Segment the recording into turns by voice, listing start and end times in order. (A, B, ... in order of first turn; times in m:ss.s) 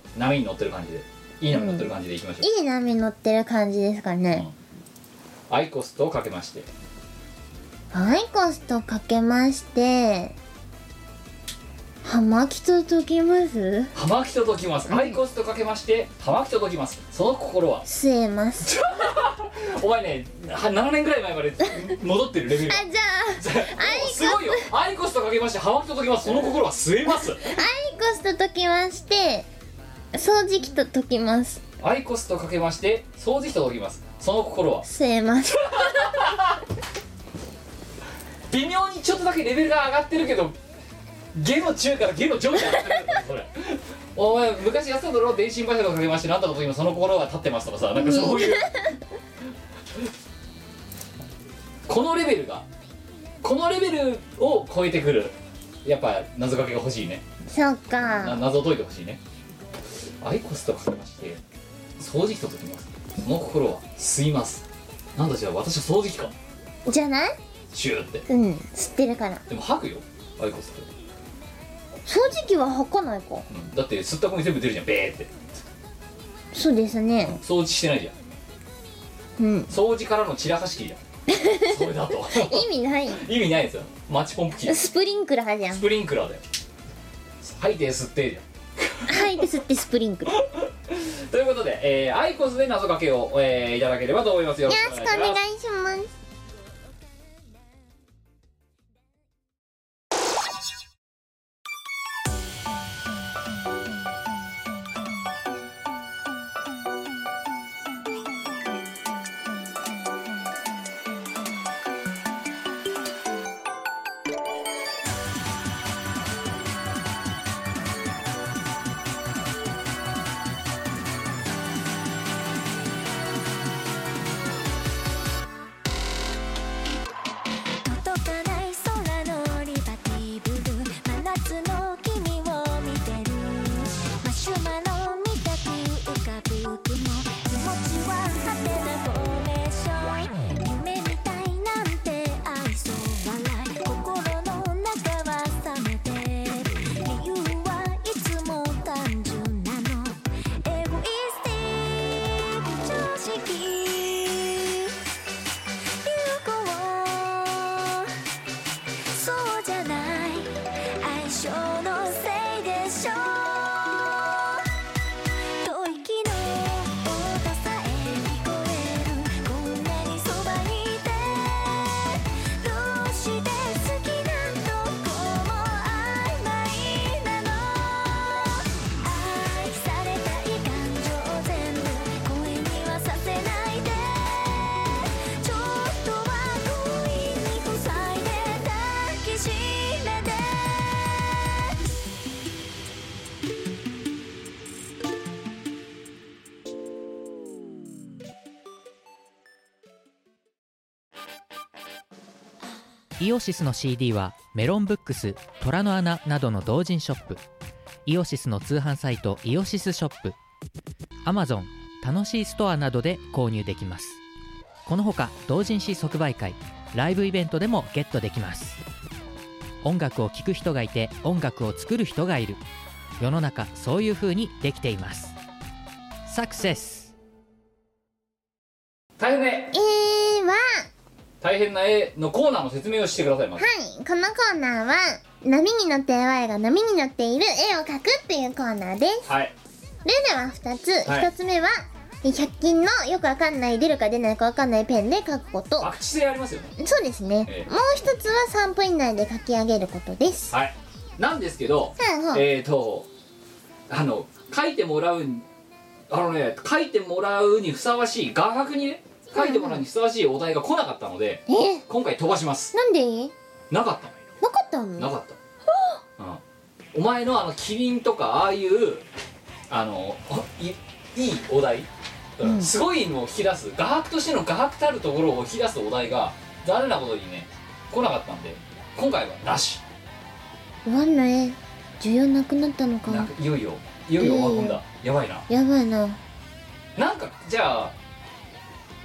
0:00.1-0:02.5 A
0:01.5-0:01.9 B
0:02.4-0:04.4 B
0:05.5-0:06.7 A
0:07.9-0:10.3 B
0:12.0-0:13.9 B
0:13.9-0:17.8 A
0:14.9-0:15.2 B
0:17.8-0:18.8 B
0:18.6-0:22.8 A
0:22.6-0:24.7 B
0:23.4-0:27.5 A
0:27.4-0:29.5 B
0:30.1-0:31.6 B
0:31.8-0:34.8 A
0:34.8-0:36.4 B
0:35.5-0:36.6 A
0:38.5-0:40.6 A
0:41.3-0:48.8 A
0:48.0-0:48.9 B
0:51.9-0:52.6 A
0:53.4-0:57.2 A
0:57.5-0:58.4 B
0:58.2-0:59.2 A
1:00.2-1:01.4 A
1:02.0-1:06.3 A
1:06.8-1:07.4 B
1:07.7-1:08.2 A
1:08.3-1:09.4 B
1:09.5-1:10.9 A
1:12.0-1:13.4 B
1:13.5-1:15.3 A
1:16.5-1:17.4 B
1:17.2-1:18.1 A
1:19.4-1:19.7 B
1:19.7-1:21.0 A
1:21.3-1:23.2 B
1:21.5-1:24.8 A
1:24.6-1:25.8 B
1:25.7-1:26.4 A
1:27.4-1:29.4 A
1:29.1-1:30.4 B
1:30.3-1:35.4 A
1:34.7-1:36.1 B
2:07.8-2:34.9 C
2:36.0-2:38.1 C
2:39.1-2:44.6 C
2:45.6-3:11.7 C
3:23.2-3:27.4 D
3:28.0-3:30.3 D
3:31.2-3:34.2 D
3:34.8-3:38.8 D
3:39.8-3:42.6 D
3:43.2-3:45.3 D
3:46.2-3:47.1 D
3:49.2-3:49.8 A
3:49.7-3:50.9 B
3:51.4-3:53.6 A
3:53.6-3:59.3 B
3:59.2-3:59.5 A
4:00.0-4:05.9 B
4:01.0-4:01.3 A
4:05.8-4:06.7 A
4:06.8-4:10.5 B
4:10.5-4:13.1 A
4:12.0-4:12.4 B
4:13.9-4:15.4 A
4:16.1-4:22.7 A
4:19.3-4:19.8 B
4:21.5-4:21.8 B
4:22.7-4:23.3 B
4:23.7-4:24.1 A
4:24.4-4:25.1 B
4:25.0-4:25.4 A
4:26.9-4:29.0 A
4:29.7-4:39.8 A
4:32.4-4:32.7 B
4:40.8-4:43.3 B
4:43.1-4:45.4 A
4:44.2-4:44.8 B
4:45.5-4:46.2 B
4:47.0-4:48.0 A